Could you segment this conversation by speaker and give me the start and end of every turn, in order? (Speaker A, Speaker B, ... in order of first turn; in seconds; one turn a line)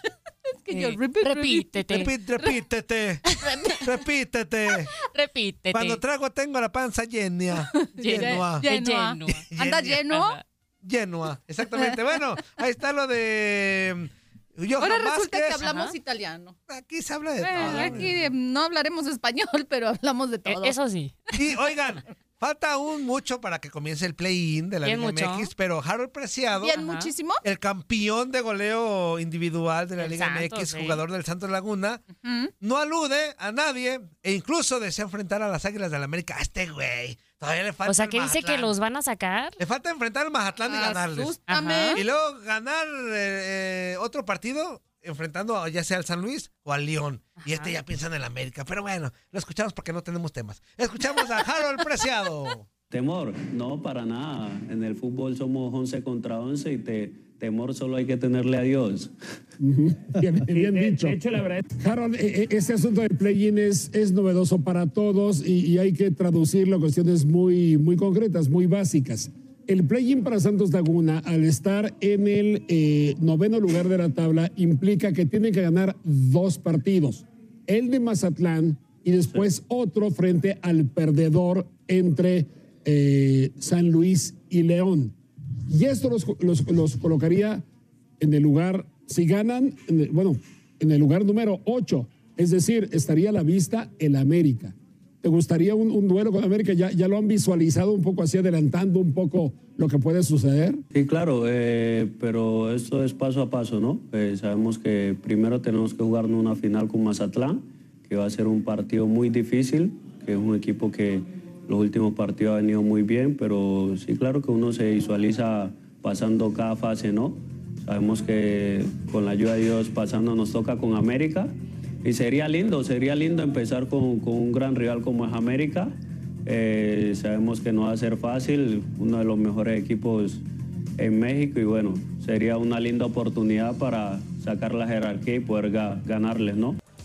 Speaker A: 0.6-1.8
Speaker B: 0.7-2.1
Speaker C: 1.9-3.2
Speaker B: 3.2-3.9
Speaker C: 3.8-4.9
Speaker B: 5.1-6.0
Speaker C: 5.7-8.7
Speaker A: 7.7-10.4
Speaker B: 8.0-9.5
Speaker C: 9.4-10.1
Speaker B: 10.1-10.4
Speaker C: 10.8-15.6
Speaker A: 14.8-16.6
Speaker B: 15.6-15.9
Speaker C: 16.7-18.2
Speaker A: 17.4-20.8
Speaker B: 17.5-18.1
Speaker B: 20.4-21.2
Speaker C: 21.3-26.8
Speaker B: 24.8-25.5
Speaker A: 26.6-27.4
Speaker B: 26.7-27.1
Speaker C: 27.4-32.1
Speaker B: 30.0-31.0
Speaker A: 32.1-32.5
Speaker C: 32.6-38.7
Speaker B: 37.9-39.6
Speaker C: 39.6-41.4
Speaker A: 40.7-42.0
Speaker B: 41.5-42.0
Speaker C: 41.9-52.6
Speaker B: 47.4-47.8
Speaker D: 52.9-59.1
Speaker E: 59.6-61.3
Speaker E: 61.8-85.1
Speaker E: 85.7-87.6
Speaker E: 88.2-100.8
Speaker D: 100.9-125.9
Speaker D: 126.5-130.4
Speaker D: 131.0-136.8